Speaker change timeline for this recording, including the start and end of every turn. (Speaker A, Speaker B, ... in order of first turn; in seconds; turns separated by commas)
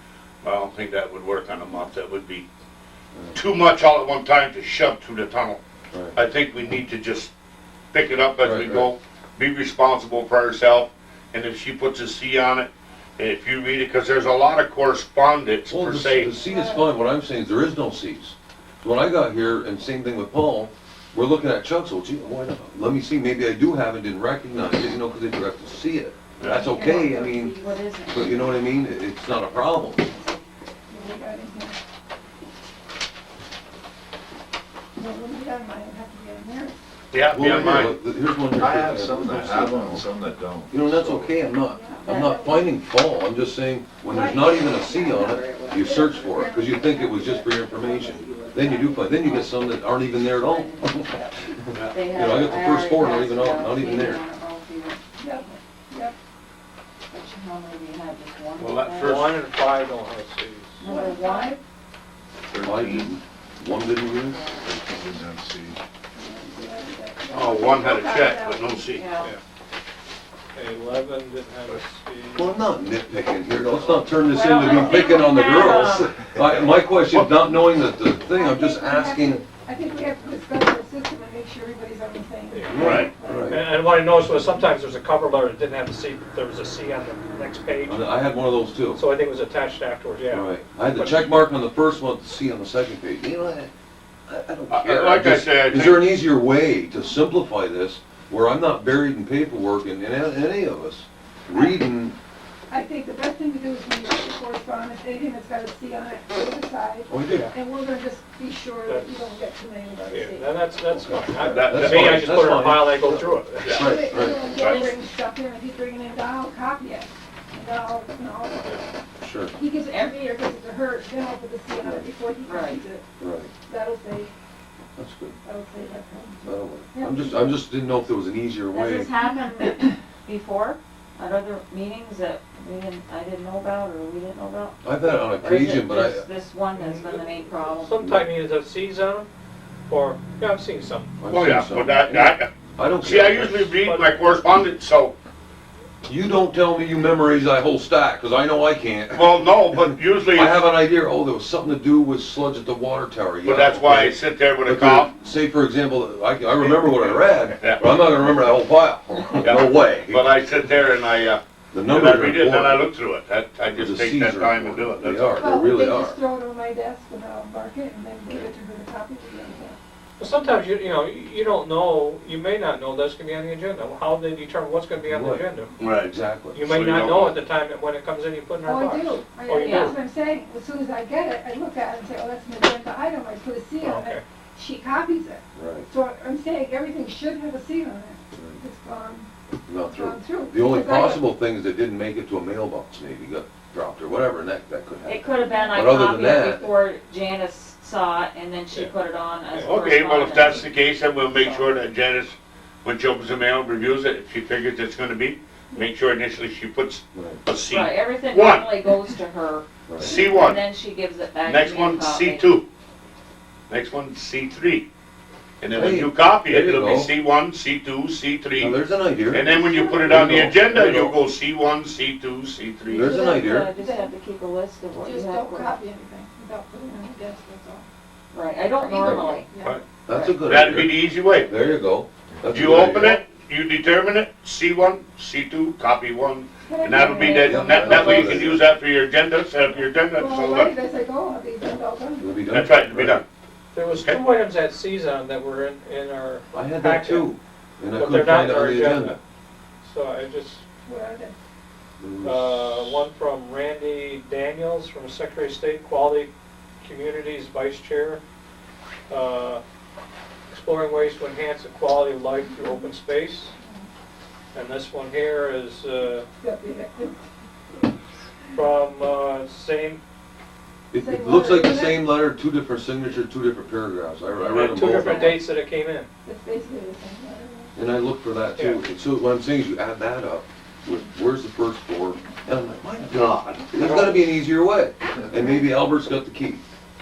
Speaker A: 0.4-2.5, Speaker A: 3.3-5.6, Speaker A: 6.1-7.3, Speaker A: 7.9-16.3, Speaker B: 8.4-8.9, Speaker B: 15.7-30.2, Speaker C: 16.4-16.9, Speaker A: 26.4-26.7, Speaker C: 26.4-27.8, Speaker D: 26.8-28.8, Speaker C: 30.9-31.8, Speaker C: 35.0-36.8, Speaker A: 37.1-37.9, Speaker B: 37.3-40.0, Speaker E: 38.5-41.4, Speaker B: 40.7-54.2, Speaker C: 41.7-42.7, Speaker D: 42.0-42.4, Speaker C: 44.0-49.0, Speaker D: 44.4-46.0, Speaker D: 48.6-51.2, Speaker C: 51.1-51.6, Speaker D: 51.8-55.5, Speaker C: 55.2-56.1, Speaker D: 57.1-59.2, Speaker A: 58.6-59.4, Speaker F: 59.0-60.8, Speaker D: 60.8-61.6, Speaker C: 60.8-61.6, Speaker E: 62.5-63.1, Speaker B: 62.6-64.4, Speaker D: 64.2-64.6, Speaker E: 64.6-65.8, Speaker C: 66.1-68.9, Speaker A: 67.3-69.1, Speaker D: 68.9-69.3, Speaker F: 70.5-72.5, Speaker B: 72.3-79.4, Speaker D: 74.2-76.1, Speaker A: 77.1-77.4, Speaker C: 78.3-83.6, Speaker F: 82.5-88.1, Speaker B: 82.7-83.7, Speaker A: 82.8-83.1, Speaker B: 87.8-89.0, Speaker F: 88.9-91.3, Speaker B: 90.3-93.7, Speaker B: 94.3-102.2, Speaker A: 94.7-96.0, Speaker C: 101.5-101.8, Speaker C: 102.7-110.5, Speaker B: 107.1-107.5, Speaker F: 107.2-107.5, Speaker F: 108.8-109.3, Speaker F: 110.1-113.8, Speaker B: 110.9-114.6, Speaker A: 111.4-112.5, Speaker A: 113.6-114.0, Speaker C: 113.7-118.8, Speaker A: 114.5-114.8, Speaker D: 114.5-115.0, Speaker B: 119.2-119.5, Speaker C: 119.5-123.0, Speaker D: 119.8-120.2, Speaker B: 121.8-122.1, Speaker D: 122.4-122.8, Speaker B: 123.2-123.5, Speaker C: 123.7-124.3, Speaker B: 125.0-125.4, Speaker C: 125.4-127.5, Speaker B: 126.4-129.1, Speaker D: 128.7-138.0, Speaker B: 134.8-136.2, Speaker F: 136.7-139.3, Speaker B: 138.0-138.3, Speaker F: 139.9-141.1, Speaker B: 141.2-143.8, Speaker A: 141.3-142.5, Speaker A: 143.0-145.1, Speaker F: 143.8-144.2, Speaker B: 146.0-160.3, Speaker A: 149.1-150.6, Speaker A: 153.4-155.1, Speaker A: 156.6-157.8, Speaker A: 159.4-165.3, Speaker B: 161.7-162.9, Speaker B: 163.7-166.2, Speaker C: 165.4-169.8, Speaker F: 170.2-175.7, Speaker B: 175.0-175.4, Speaker A: 175.8-177.3, Speaker B: 176.0-176.7, Speaker F: 176.5-179.9, Speaker C: 178.6-189.3, Speaker D: 179.6-180.0, Speaker F: 183.8-184.2, Speaker B: 185.5-185.9, Speaker B: 189.7-196.7, Speaker C: 189.9-191.2, Speaker D: 195.1-201.7, Speaker C: 195.4-195.8, Speaker F: 199.5-199.8, Speaker A: 199.6-208.7, Speaker B: 207.1-207.4, Speaker D: 207.7-212.5, Speaker B: 209.9-210.2, Speaker A: 210.0-210.6, Speaker A: 211.4-212.6, Speaker A: 213.7-214.8, Speaker A: 215.6-218.8, Speaker B: 215.7-217.1, Speaker B: 218.6-221.2, Speaker A: 219.3-223.2, Speaker C: 219.7-220.0, Speaker B: 222.9-223.7, Speaker D: 222.9-225.8, Speaker C: 223.1-224.1, Speaker C: 225.0-227.9, Speaker D: 228.3-229.5, Speaker C: 228.8-229.8, Speaker B: 229.0-229.3, Speaker B: 230.1-233.2, Speaker D: 230.1-230.4, Speaker A: 230.4-231.5, Speaker E: 232.4-232.9, Speaker A: 232.4-240.7, Speaker C: 236.7-238.5, Speaker D: 237.2-237.6, Speaker B: 237.4-238.6, Speaker C: 240.2-242.4, Speaker B: 242.2-243.2, Speaker A: 242.5-243.2, Speaker F: 243.7-247.3, Speaker B: 246.5-249.2, Speaker F: 247.9-249.2, Speaker F: 249.8-250.6, Speaker C: 250.8-251.3, Speaker B: 252.0-253.0, Speaker F: 252.2-256.3, Speaker F: 256.8-258.2, Speaker F: 259.1-259.6, Speaker F: 260.5-263.5, Speaker C: 263.6-263.9, Speaker F: 264.5-266.3, Speaker C: 266.4-267.2, Speaker F: 268.5-270.0, Speaker B: 270.9-275.4, Speaker C: 271.0-272.1, Speaker F: 274.4-276.1, Speaker C: 276.2-277.7, Speaker B: 277.7-286.6, Speaker A: 283.8-284.2